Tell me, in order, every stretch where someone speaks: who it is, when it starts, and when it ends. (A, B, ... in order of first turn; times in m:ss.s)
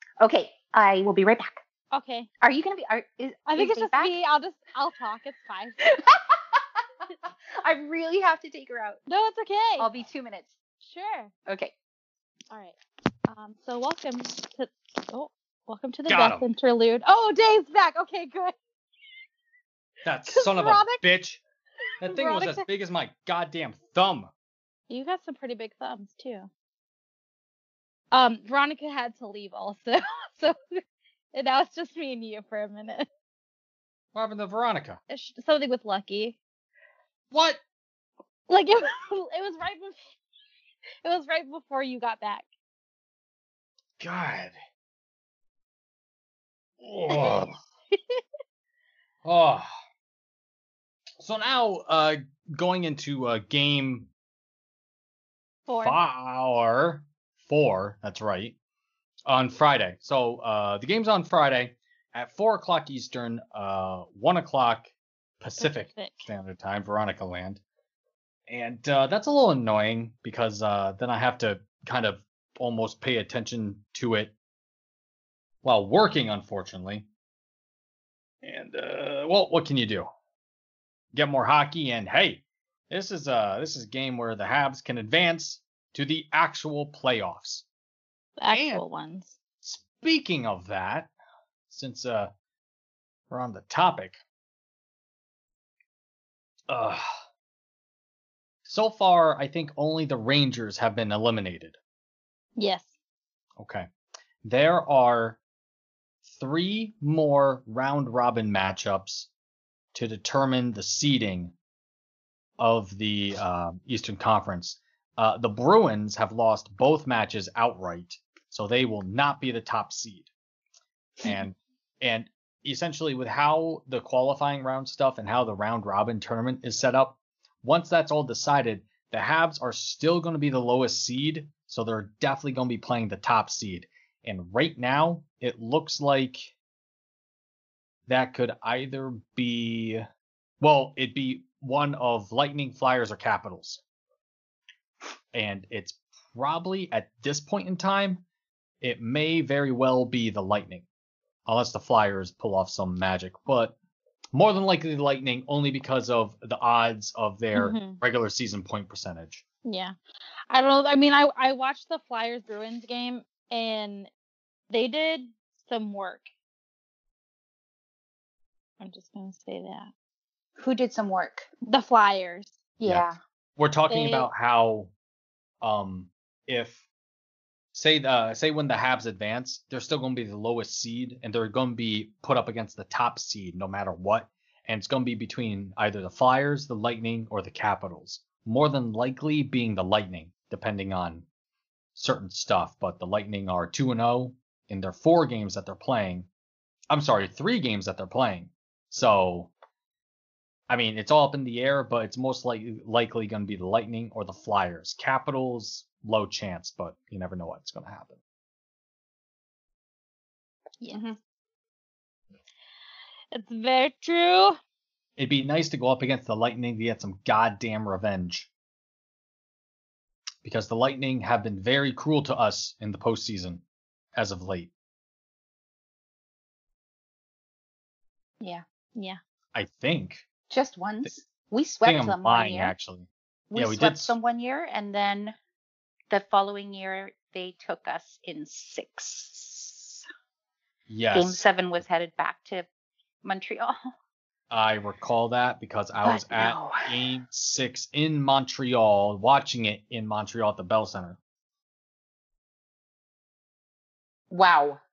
0:00.2-0:01.6 A
0:01.9-0:02.3 B
0:02.4-0:04.1 A
0:03.5-0:05.8 B
0:05.8-0:07.1 A
0:07.6-0:09.0 A
0:09.1-0:09.9 B
0:09.8-0:10.5 A
0:10.8-0:11.3 B
0:11.5-0:11.7 A
0:12.5-0:18.5 B
0:16.1-0:16.4 C
0:20.0-0:21.4 C
0:20.3-0:21.0 B
0:22.0-0:24.3 C
0:22.0-0:22.6 B
0:24.9-0:26.5 B
0:28.1-0:30.6 B
0:31.3-0:33.1 B
0:34.1-0:35.0 C
0:35.1-0:36.4 B
0:37.3-0:37.6 C
0:38.5-0:40.0 B
0:41.0-0:42.4 B
0:44.0-0:44.6 C
0:46.8-0:47.6 C
0:47.1-0:48.2 B
0:49.2-0:49.7 C
0:51.2-0:54.1 C
0:55.7-0:56.0 B
0:55.8-0:58.6 C
0:59.2-1:07.6 C
1:05.6-1:06.3 B
1:08.5-1:14.3 C
1:15.6-1:17.1 C
1:18.4-1:20.1 C
1:21.1-1:27.6 C
1:28.4-1:29.4 B
1:28.5-1:28.8 C
1:29.6-1:31.1 C
1:31.7-1:32.3 C
1:33.3-1:34.2 C
1:36.7-1:37.2 C
1:38.6-1:41.8 C
1:42.6-1:42.9 B
1:43.6-1:43.9 C
1:44.4-1:45.4 C
1:46.2-1:49.3 C
1:49.9-1:51.5 C
1:52.6-2:00.3 C
2:01.2-2:16.5 C
2:18.1-2:20.1 C
2:20.6-2:23.8 C
2:25.3-2:28.2 C
2:28.8-2:30.8 C
2:31.4-2:33.8 C
2:34.3-2:39.4 C
2:37.5-2:38.0 B
2:39.6-2:39.9 B
2:40.5-2:44.1 B
2:44.7-2:46.3 B
2:48.8-2:49.9 B
2:50.6-2:51.5 A
2:51.6-2:52.6 B
2:52.8-2:53.2 A
2:52.8-2:54.9 C
2:53.9-2:54.3 B
2:55.6-2:56.8 C
2:57.7-3:11.2 C
3:11.9-3:16.3 C
3:16.9-3:19.5 C
3:20.7-3:28.2 C
3:33.3-3:34.6 B
3:35.2-3:38.5 C
3:40.4-3:43.6 C
3:44.1-3:44.7 C
3:49.5-3:50.2 C
3:50.5-3:52.7 A
3:51.8-3:54.2 C
3:53.5-3:55.4 A
3:56.1-4:00.0 A
4:00.9-4:01.4 C
4:01.1-4:02.7 A
4:03.2-4:03.8 A
4:04.5-4:11.2 C
4:06.0-4:07.0 A
4:14.3-4:14.8 A